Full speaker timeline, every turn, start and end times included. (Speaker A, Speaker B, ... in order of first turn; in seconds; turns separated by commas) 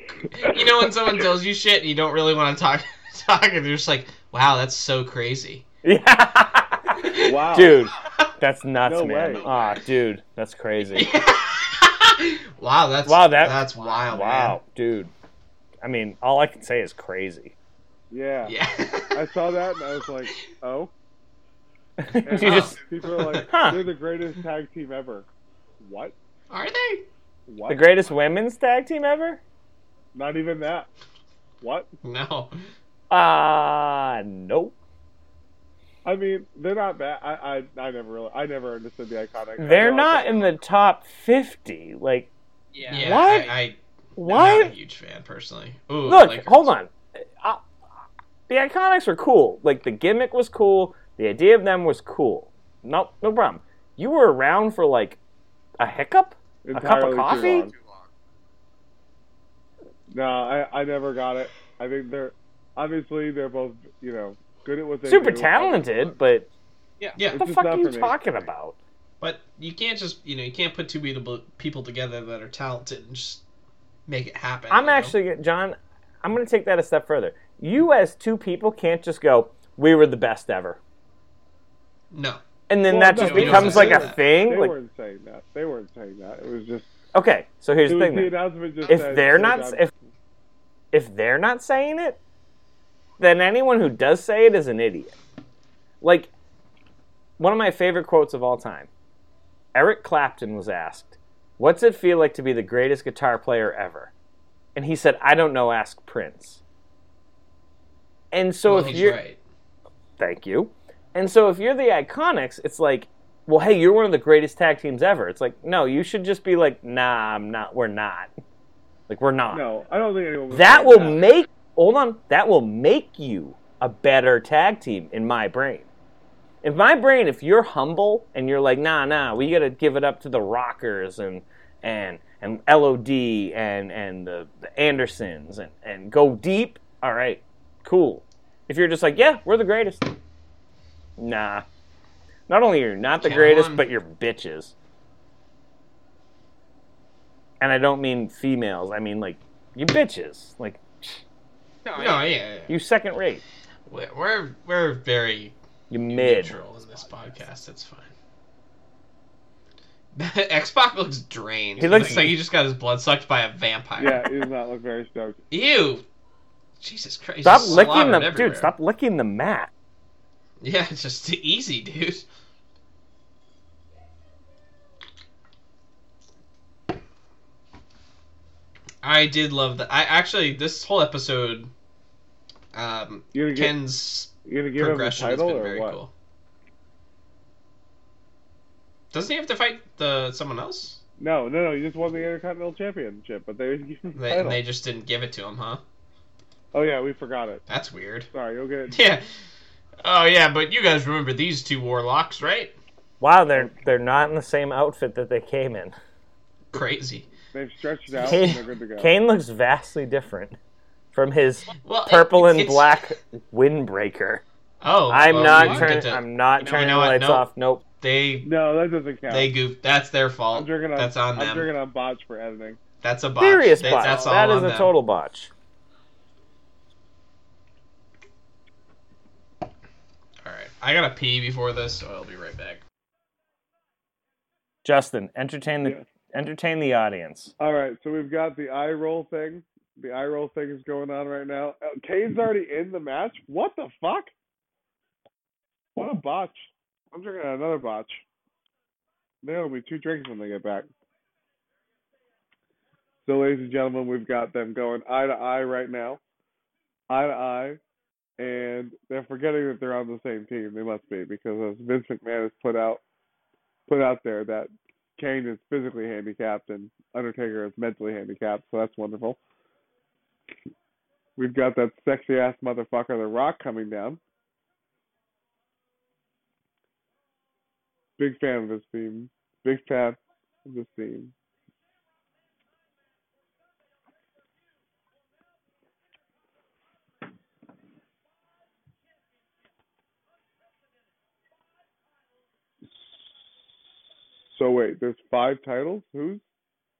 Speaker A: 0.3-5.6, Speaker B: 5.8-11.1, Speaker A: 6.9-7.3, Speaker C: 7.2-7.8, Speaker C: 8.8-9.4, Speaker D: 9.4-9.8, Speaker A: 10.9-14.6, Speaker B: 13.1-15.1, Speaker B: 15.8-17.5, Speaker C: 18.1-18.6, Speaker A: 18.4-19.2, Speaker C: 19.1-20.9, Speaker B: 22.0-22.8, Speaker C: 22.2-25.3, Speaker A: 22.4-23.2, Speaker B: 23.3-23.8, Speaker C: 25.8-26.1, Speaker A: 26.5-27.1, Speaker C: 27.5-27.9, Speaker B: 27.7-29.4, Speaker C: 30.1-30.9, Speaker C: 31.6-31.9, Speaker A: 32.0-32.6, Speaker B: 33.1-34.7, Speaker C: 36.0-40.5, Speaker B: 39.6-42.3, Speaker D: 42.7-43.3, Speaker B: 42.9-43.5, Speaker A: 42.9-46.7, Speaker B: 44.2-44.7, Speaker B: 46.0-47.6, Speaker B: 48.5-55.2, Speaker B: 55.8-57.7, Speaker C: 56.6-57.7, Speaker C: 60.1-66.1, Speaker B: 65.0-66.5, Speaker C: 67.3-68.2, Speaker B: 67.3-68.8, Speaker A: 69.2-73.4, Speaker A: 74.1-75.2, Speaker B: 74.7-80.8, Speaker A: 82.1-82.4, Speaker B: 82.7-84.7, Speaker C: 82.8-86.9, Speaker A: 83.2-84.2, Speaker B: 87.1-88.3, Speaker C: 87.8-89.9, Speaker B: 88.9-89.9, Speaker B: 90.9-92.2, Speaker B: 93.2-95.1, Speaker B: 96.0-96.3, Speaker B: 97.4-98.9, Speaker B: 99.7-104.1, Speaker B: 104.8-106.6, Speaker B: 108.3-109.2, Speaker A: 108.6-109.4, Speaker B: 110.2-118.3, Speaker B: 119.1-119.6, Speaker C: 119.5-121.3, Speaker B: 120.5-125.9, Speaker B: 126.6-140.1, Speaker B: 141.2-141.6, Speaker B: 142.5-144.7, Speaker A: 143.2-143.9, Speaker B: 147.6-151.2, Speaker D: 151.8-152.2, Speaker A: 151.9-152.7, Speaker B: 152.7-153.4, Speaker A: 153.9-155.6, Speaker B: 155.9-156.6, Speaker A: 156.1-158.1, Speaker A: 160.1-164.3, Speaker B: 161.8-162.4, Speaker C: 164.0-165.4, Speaker A: 165.5-166.0, Speaker A: 166.8-168.7, Speaker B: 167.4-169.7, Speaker A: 170.6-172.2, Speaker A: 179.0-181.7, Speaker A: 182.7-186.1, Speaker C: 183.3-183.8, Speaker C: 184.4-186.0, Speaker A: 189.1-191.0, Speaker C: 191.2-194.6, Speaker A: 194.2-195.8, Speaker C: 196.7-197.6, Speaker A: 197.7-198.3, Speaker C: 198.3-199.0, Speaker A: 198.9-199.2, Speaker A: 200.0-202.7, Speaker B: 203.2-205.9, Speaker A: 206.7-207.3, Speaker C: 207.5-209.1, Speaker A: 208.2-208.5, Speaker B: 208.2-210.6, Speaker B: 211.1-214.4, Speaker A: 211.8-213.0, Speaker A: 214.8-217.5, Speaker B: 215.1-217.8, Speaker C: 215.3-215.9, Speaker D: 216.6-217.0, Speaker A: 218.0-218.5, Speaker C: 218.4-219.5, Speaker A: 219.3-221.7, Speaker C: 220.5-222.8, Speaker A: 223.0-224.9, Speaker B: 223.4-225.5, Speaker D: 223.9-224.4, Speaker A: 230.4-232.8, Speaker B: 234.8-237.5, Speaker C: 237.6-244.3, Speaker C: 245.9-248.2, Speaker C: 249.4-250.9, Speaker C: 253.2-256.2, Speaker C: 257.1-257.8, Speaker C: 258.4-263.0, Speaker C: 263.9-269.4, Speaker C: 271.4-274.2, Speaker C: 278.2-281.3, Speaker C: 294.5-296.4